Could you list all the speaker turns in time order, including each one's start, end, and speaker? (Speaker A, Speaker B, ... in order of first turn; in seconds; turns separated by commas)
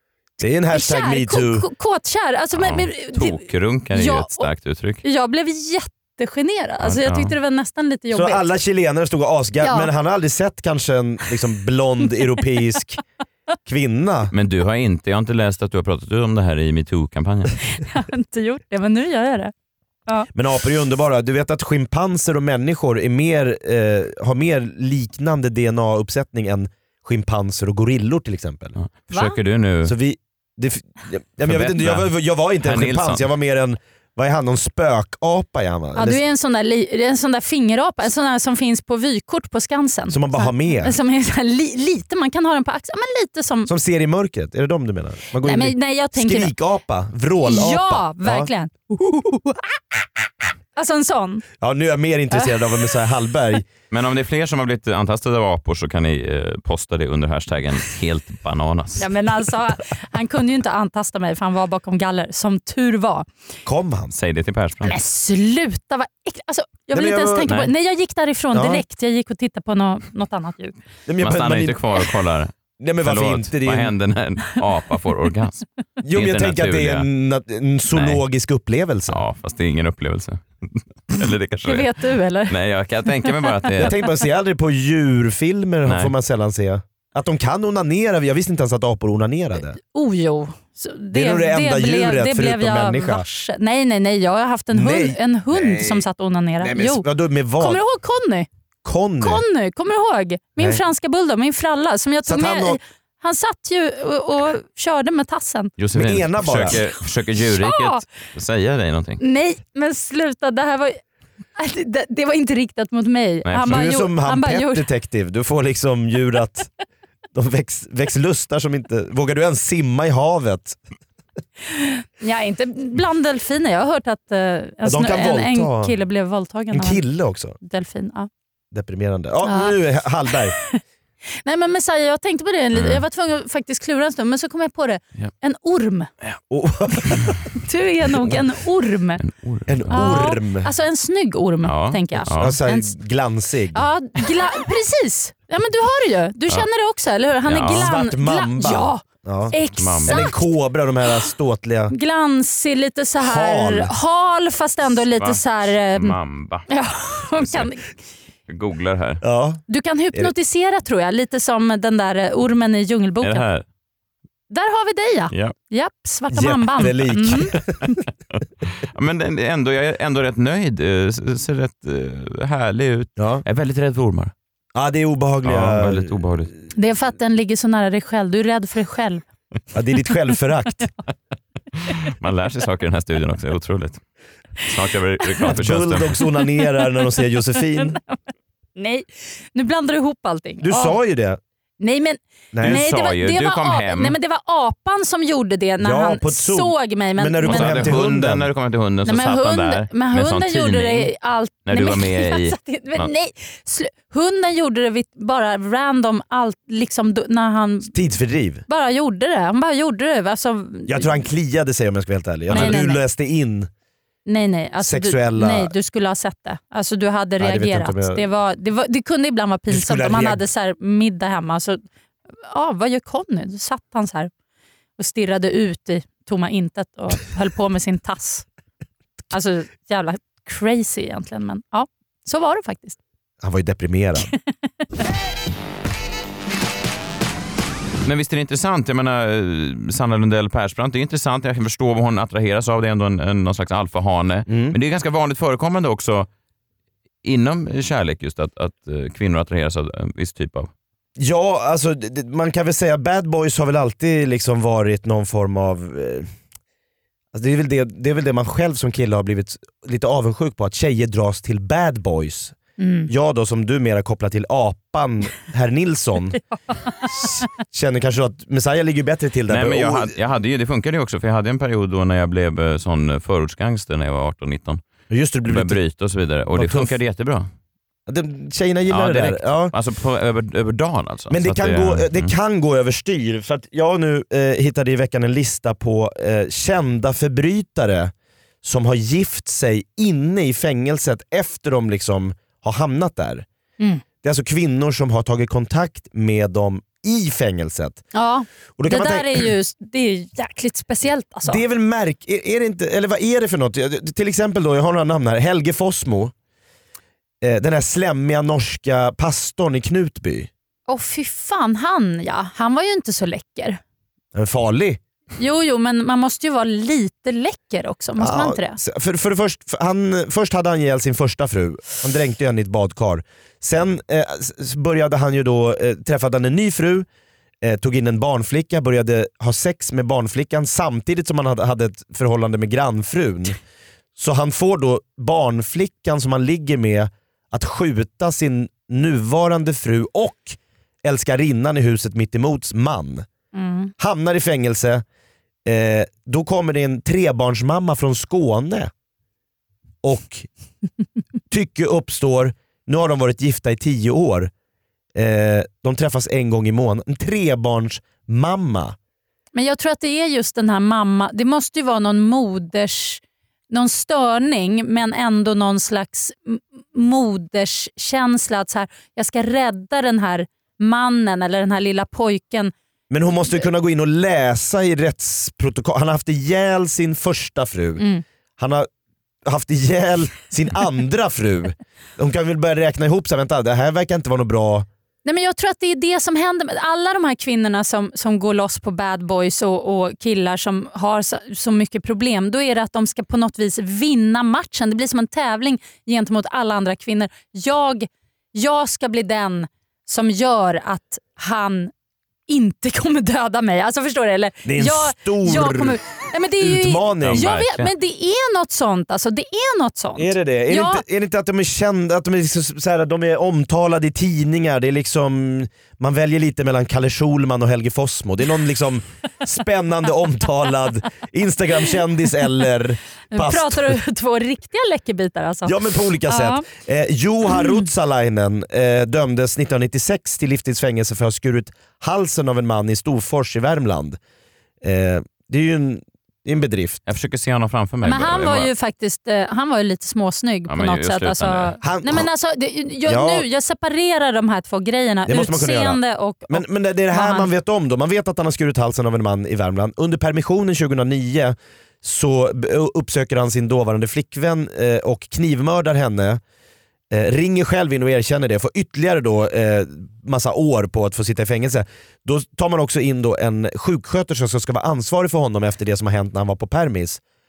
Speaker A: 0.4-1.6, Speaker B: 0.7-4.5, Speaker C: 2.5-5.0, Speaker B: 5.0-8.5, Speaker C: 6.8-7.3, Speaker A: 8.1-13.0, Speaker B: 9.6-9.9, Speaker A: 13.6-14.3, Speaker C: 14.3-17.5, Speaker B: 17.7-19.5, Speaker A: 20.3-28.8, Speaker C: 28.8-29.9, Speaker B: 29.1-29.4, Speaker A: 29.8-36.2, Speaker C: 31.4-33.2, Speaker B: 36.0-43.7, Speaker A: 40.1-41.0, Speaker A: 43.6-49.5, Speaker B: 45.4-46.5, Speaker B: 47.4-48.9, Speaker B: 50.8-51.4, Speaker A: 51.6-53.6, Speaker C: 53.9-59.0, Speaker B: 59.0-63.3, Speaker A: 63.6-64.1, Speaker C: 64.1-64.9, Speaker B: 64.8-70.8, Speaker A: 66.9-67.5, Speaker A: 68.5-68.8, Speaker A: 71.1-71.8, Speaker C: 71.2-72.5, Speaker A: 72.8-73.9, Speaker C: 73.0-77.1, Speaker A: 76.0-79.2, Speaker C: 77.9-78.2, Speaker C: 79.1-81.8, Speaker B: 81.7-82.5, Speaker C: 82.5-83.9, Speaker A: 83.8-89.8, Speaker C: 85.8-86.1, Speaker B: 89.8-97.0, Speaker A: 91.1-93.2, Speaker A: 94.7-96.0, Speaker A: 96.6-97.8, Speaker B: 97.6-98.5, Speaker A: 98.8-99.4, Speaker B: 99.2-105.7, Speaker A: 102.2-102.8, Speaker C: 105.8-109.2, Speaker A: 105.9-106.8, Speaker B: 107.4-108.0, Speaker B: 109.2-111.0, Speaker B: 111.5-114.8, Speaker C: 113.4-113.9, Speaker A: 113.6-116.7, Speaker A: 117.3-120.8, Speaker B: 121.7-127.0, Speaker A: 124.8-125.9, Speaker A: 126.7-127.5, Speaker B: 127.6-128.3, Speaker A: 128.7-130.6, Speaker B: 129.4-129.8, Speaker B: 130.3-130.8, Speaker B: 131.4-136.1, Speaker C: 132.7-133.0, Speaker A: 136.5-137.3, Speaker B: 137.5-139.2, Speaker C: 139.2-140.2, Speaker A: 139.7-140.7, Speaker B: 139.9-142.9, Speaker C: 141.6-142.6, Speaker A: 142.3-143.9, Speaker B: 143.7-150.5, Speaker C: 147.5-147.9, Speaker A: 147.7-151.9, Speaker C: 149.6-150.3, Speaker B: 151.9-156.2, Speaker A: 153.2-153.9, Speaker C: 155.2-156.7, Speaker B: 156.7-157.9, Speaker C: 157.4-157.7, Speaker C: 158.5-159.2, Speaker A: 159.2-159.6, Speaker B: 159.7-163.4, Speaker C: 163.2-163.6, Speaker B: 164.5-167.9, Speaker A: 166.3-167.8, Speaker C: 168.3-174.3, Speaker A: 173.2-173.4, Speaker A: 174.7-176.2, Speaker C: 175.4-176.5, Speaker B: 176.7-179.2, Speaker A: 179.7-180.9, Speaker C: 181.9-184.0, Speaker C: 184.6-186.2, Speaker A: 185.5-188.0, Speaker B: 186.6-187.1, Speaker B: 188.8-190.9, Speaker A: 190.6-191.4, Speaker B: 191.8-198.0, Speaker A: 192.5-192.8, Speaker C: 192.6-194.2, Speaker A: 195.8-198.5, Speaker C: 197.4-201.1, Speaker B: 199.0-208.0, Speaker C: 201.6-203.1, Speaker A: 207.9-208.6, Speaker B: 208.7-211.2, Speaker A: 210.9-213.7, Speaker B: 212.5-213.0, Speaker C: 212.5-212.8, Speaker B: 214.2-221.8, Speaker A: 214.8-215.7, Speaker A: 217.4-218.2, Speaker A: 219.7-220.4, Speaker B: 222.4-224.3, Speaker B: 225.0-228.4, Speaker B: 229.3-233.0, Speaker A: 233.4-234.3, Speaker C: 238.0-246.3, Speaker A: 244.5-244.8, Speaker C: 247.2-250.7, Speaker A: 251.2-256.3, Speaker A: 257.3-266.4, Speaker B: 262.8-263.1, Speaker A: 267.1-270.1, Speaker C: 269.5-274.8, Speaker A: 275.1-275.8, Speaker C: 275.5-277.5, Speaker A: 276.5-276.9, Speaker A: 278.1-279.7, Speaker C: 278.9-282.3, Speaker A: 281.3-288.1, Speaker A: 288.6-293.4, Speaker A: 294.2-298.0, Speaker B: 298.1-301.6, Speaker A: 298.8-299.5, Speaker A: 301.4-306.3, Speaker A: 307.4-310.5, Speaker B: 310.9-313.8, Speaker A: 314.3-315.0, Speaker B: 315.4-318.8, Speaker A: 318.2-327.1, Speaker A: 327.6-333.6, Speaker A: 334.1-343.3, Speaker B: 343.5-343.9, Speaker A: 344.0-345.0, Speaker A: 345.6-348.9, Speaker A: 350.0-350.5, Speaker A: 351.5-354.5, Speaker A: 355.1-358.9, Speaker B: 359.5-372.7, Speaker A: 373.1-378.0, Speaker B: 378.0-378.2, Speaker A: 378.6-378.9, Speaker A: 379.4-384.9, Speaker B: 385.2-401.9, Speaker B: 402.5-411.0, Speaker A: 404.6-406.0, Speaker A: 406.6-407.5, Speaker C: 407.2-407.9, Speaker A: 410.1-424.0, Speaker B: 423.3-426.6, Speaker A: 425.6-434.2, Speaker A: 434.8-437.0, Speaker C: 437.1-438.7, Speaker B: 438.0-447.5, Speaker C: 440.7-441.7, Speaker A: 441.8-442.3, Speaker A: 443.1-443.4, Speaker A: 445.3-456.4, Speaker A: 457.1-467.2